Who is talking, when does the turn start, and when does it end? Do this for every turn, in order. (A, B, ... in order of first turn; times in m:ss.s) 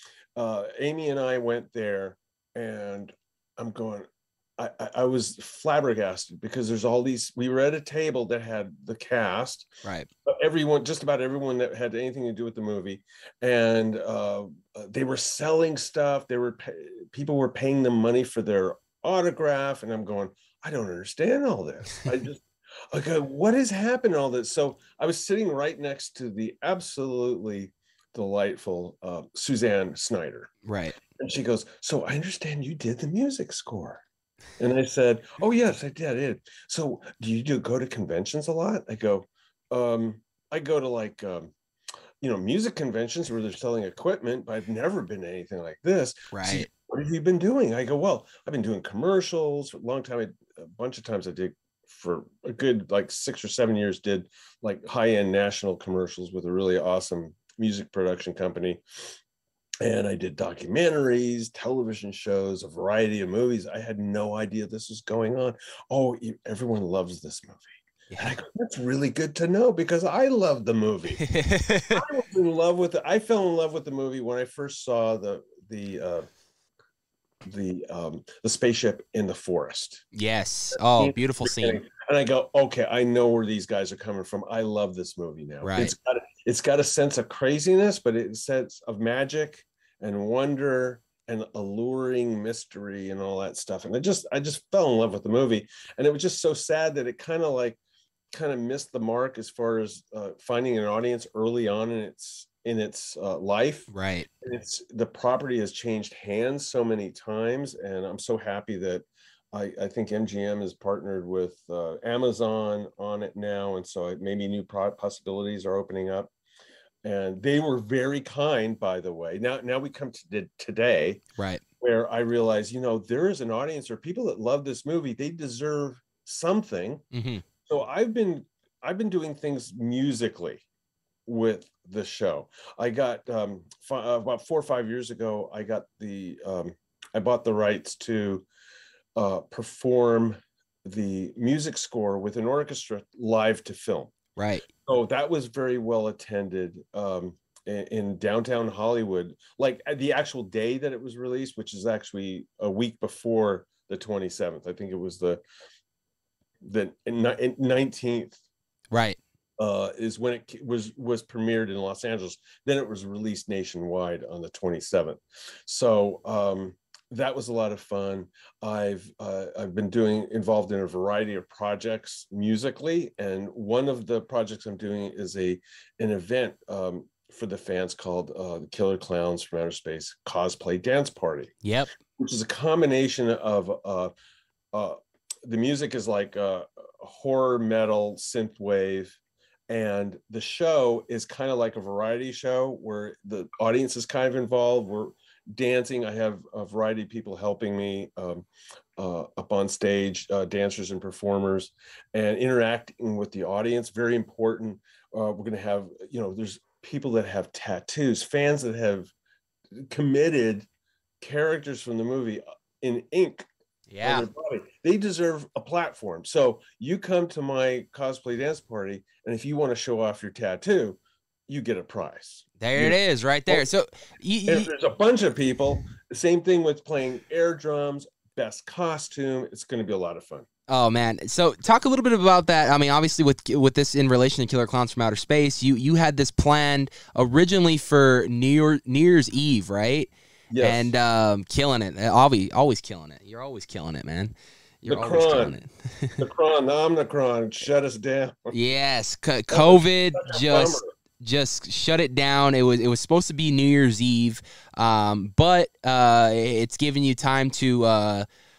0:00.3-0:09.7 A
0:10.2-0:30.5 A
0:30.6-0:31.0 B
0:31.1-0:34.0 A
0:34.6-0:41.5 A
0:42.2-0:58.8 A
0:46.3-0:46.7 B
0:59.8-1:11.2 A
1:11.2-1:12.0 B
1:11.9-1:16.3 A
1:17.4-1:20.0 A
1:20.1-1:21.8 B
1:21.0-1:37.8 A
1:25.6-1:25.9 B
1:38.3-1:43.9 A
1:43.9-1:44.3 B
1:44.4-1:56.3 A
1:57.0-2:01.2 A
2:01.4-2:01.6 B
2:01.8-2:07.0 A
2:07.1-2:07.4 B
2:07.6-2:10.6 A
2:11.2-2:18.4 A
2:19.2-2:24.1 A
2:24.4-2:24.7 B
2:24.8-2:35.4 A
2:36.6-2:38.4 A
2:38.9-2:39.2 B
2:39.6-3:01.5 A
3:01.6-3:01.9 B
3:02.2-3:04.1 A
3:04.7-3:09.2 A
3:09.7-3:29.1 A
3:29.7-3:30.7 A
3:31.2-3:33.4 A
3:33.9-3:34.3 B
3:34.0-3:43.0 A
3:42.6-3:44.7 B
3:44.5-3:50.4 A
3:50.7-4:06.2 B
4:00.5-4:00.9 A
4:04.9-4:05.6 A
4:06.2-4:08.5 A
4:08.5-4:18.2 B
4:09.5-4:10.9 A